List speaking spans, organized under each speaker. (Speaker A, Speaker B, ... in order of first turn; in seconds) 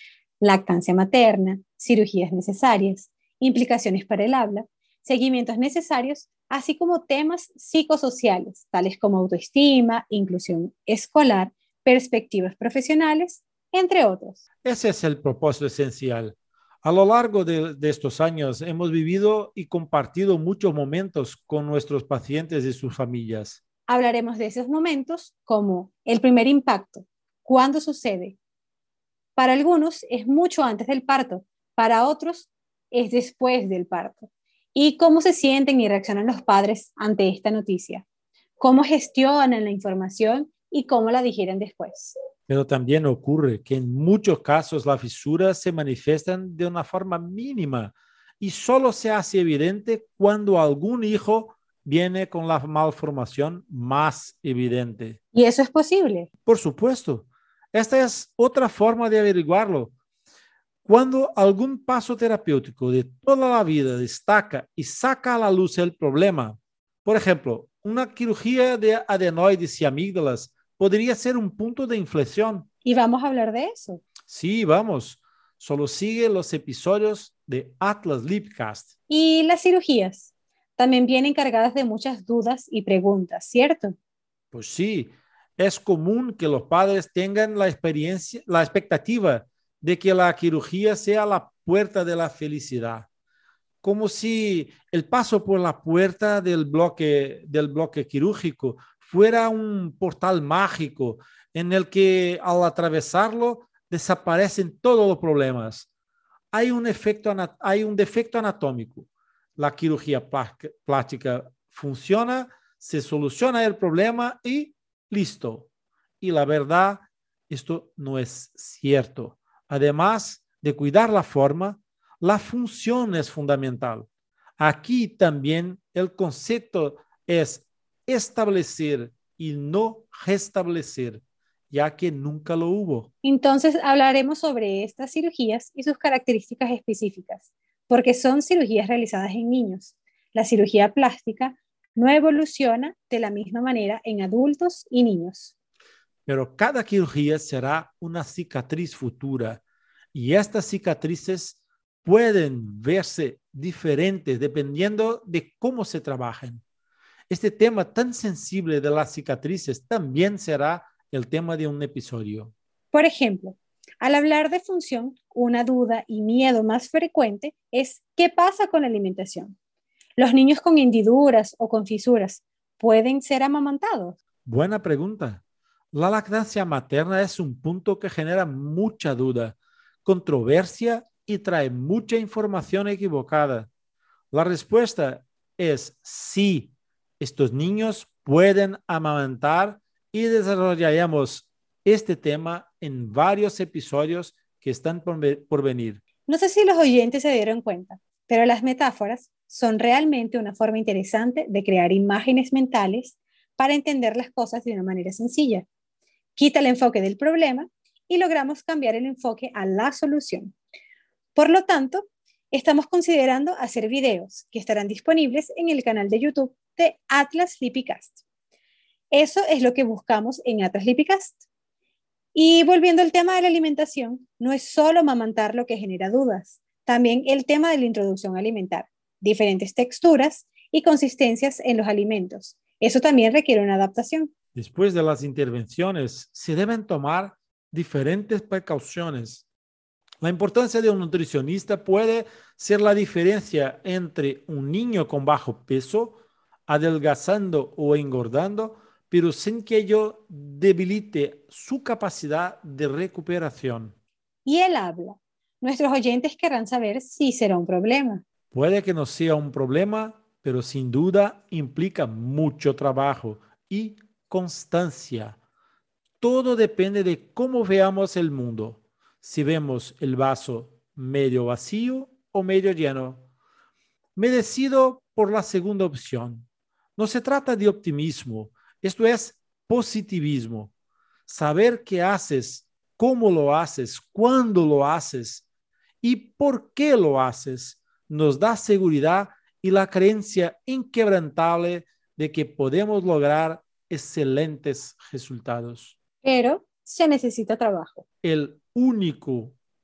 Speaker A: 0.4-14.4, 23.9-28.4, 29.4-38.0, 38.6-42.1, 55.3-56.3, 72.8-74.0, 79.1-83.9, 133.2-145.5, 162.9-169.6, 170.2-174.2, 196.2-205.7, 206.3-210.5, 211.3-218.2, 219.1-221.4, 222.3-234.3, 254.4-258.2, 296.2-298.0
Speaker B: 14.6-23.6, 42.5-55.2, 56.5-59.9, 60.8-72.7, 74.2-78.9, 84.5-93.1, 93.8-105.9, 106.5-115.7, 116.2-124.1, 124.6-133.1, 146.2-149.6, 150.1-156.6, 157.3-162.5, 174.4-183.7, 184.3-196.0, 234.5-239.4, 240.2-253.9, 258.5-265.4, 266.2-273.2, 274.1-280.7, 281.3-285.4, 286.0-295.9, 298.2-299.6